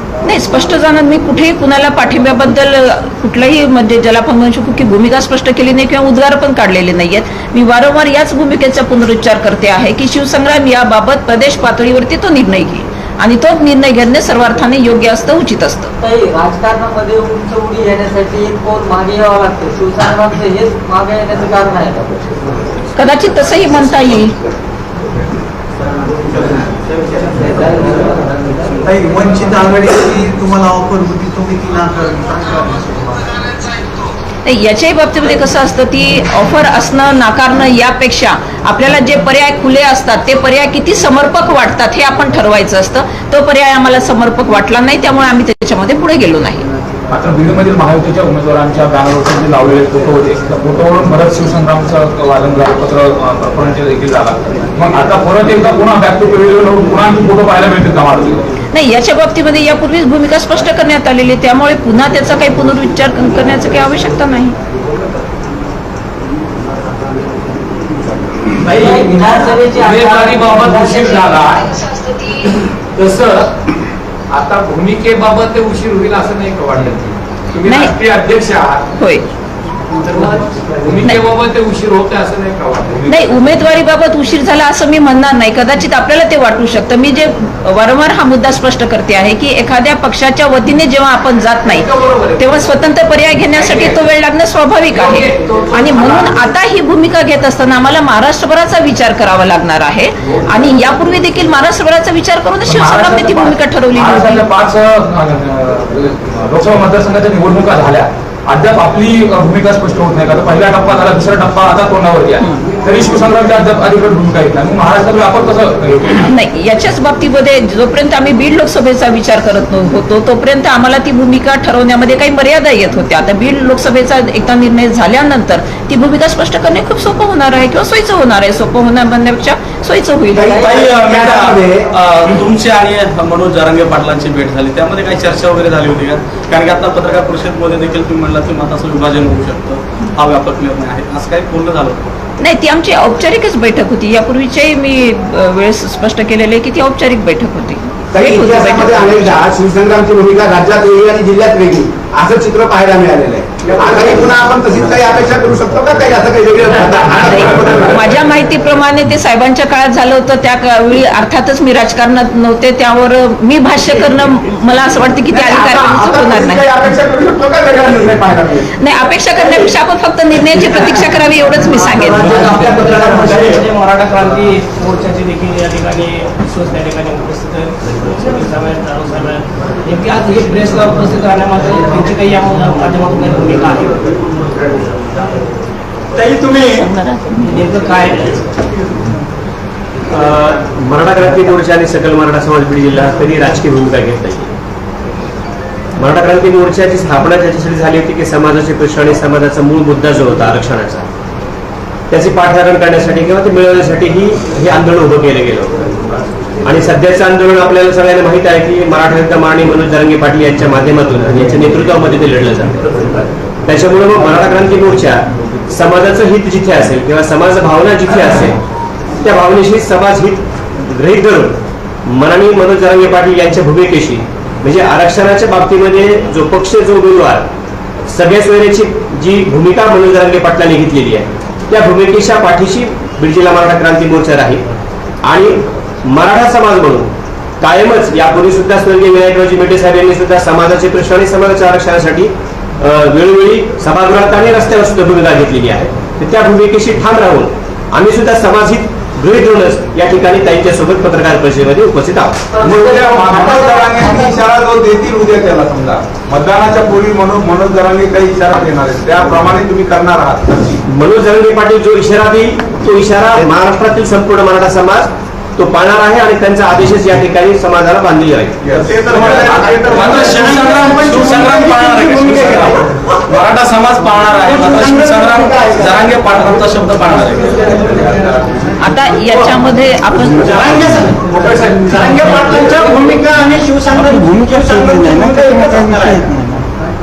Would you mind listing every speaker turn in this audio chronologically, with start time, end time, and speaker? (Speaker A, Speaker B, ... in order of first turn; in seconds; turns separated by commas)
Speaker A: 0.2-15.9, Speaker B: 16.0-22.2, Speaker A: 22.9-24.4, Speaker B: 27.4-28.2, Speaker C: 28.9-32.9, Speaker A: 34.4-46.7, Speaker D: 47.1-58.4, Speaker A: 58.7-64.6, Speaker B: 68.6-71.4, Speaker D: 68.7-71.7, Speaker D: 72.9-73.5, Speaker D: 74.3-78.8, Speaker A: 77.6-78.0, Speaker A: 79.0-79.2, Speaker D: 80.0-83.4, Speaker A: 83.1-104.5, Speaker D: 91.7-92.4, Speaker D: 93.6-94.0, Speaker D: 94.9-96.3, Speaker D: 102.7-116.3, Speaker A: 116.3-130.8, Speaker E: 130.3-131.9, Speaker F: 130.7-142.1, Speaker A: 142.4-149.5, Speaker E: 148.1-158.0, Speaker G: 153.8-154.2, Speaker A: 157.2-166.8, Speaker E: 165.3-167.1, Speaker G: 167.1-168.6, Speaker E: 167.9-168.5, Speaker A: 168.8-172.4, Speaker E: 172.1-173.6, Speaker H: 172.2-184.2, Speaker D: 172.3-172.8, Speaker E: 186.2-186.9, Speaker A: 186.8-187.6, Speaker H: 187.4-188.5, Speaker I: 190.1-194.5, Speaker I: 196.0-201.1, Speaker I: 202.1-205.8, Speaker I: 206.6-212.8, Speaker I: 213.7-218.6, Speaker I: 219.2-227.4, Speaker I: 228.1-234.6, Speaker I: 235.2-252.4, Speaker G: 252.6-260.8, Speaker B: 252.8-253.8, Speaker I: 260.9-268.6, Speaker G: 268.6-269.5, Speaker E: 268.8-272.8, Speaker F: 270.2-278.6, Speaker E: 274.4-276.2, Speaker A: 278.8-280.7, Speaker E: 280.4-286.3